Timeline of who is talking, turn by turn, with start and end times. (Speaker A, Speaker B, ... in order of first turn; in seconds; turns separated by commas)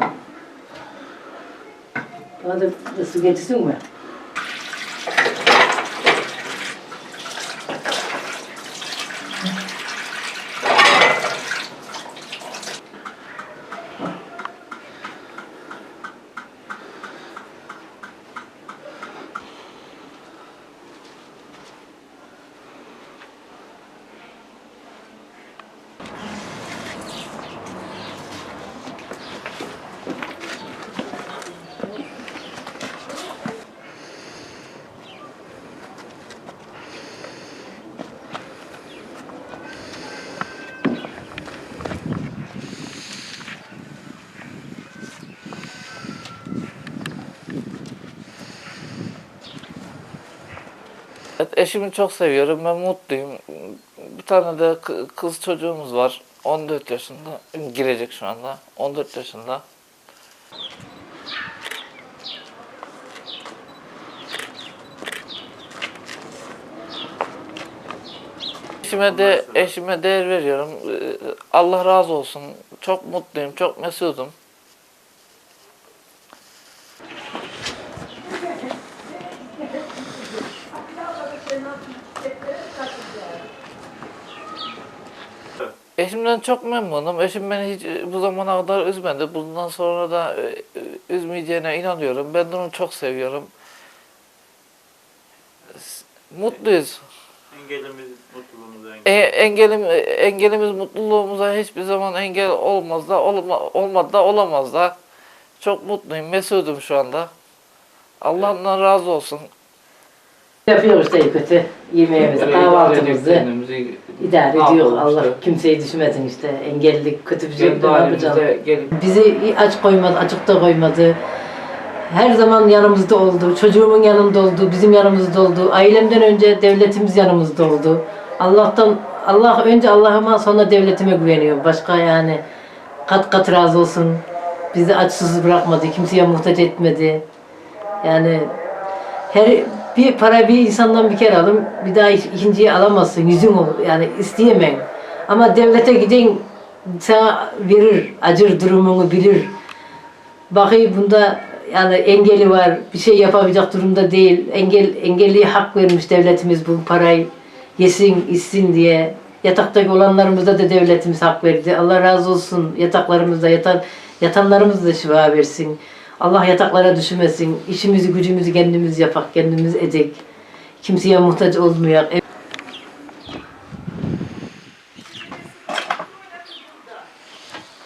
Speaker A: 2.4-3.8, Speaker B: 51.4-59.6, Speaker B: 68.8-74.3, Speaker C: 68.8-69.6, Speaker B: 86.0-93.5, Speaker B: 95.7-97.0, Speaker C: 97.5-99.2, Speaker B: 99.0-105.0, Speaker B: 105.6-107.3, Speaker B: 108.2-109.5, Speaker A: 110.7-113.4, Speaker B: 112.1-115.4, Speaker A: 114.2-121.2, Speaker B: 117.5-118.9, Speaker A: 122.1-132.4, Speaker A: 133.1-134.2, Speaker A: 134.7-137.2, Speaker A: 138.0-138.5, Speaker A: 139.3-149.5, Speaker A: 150.5-170.2, Speaker A: 170.8-172.2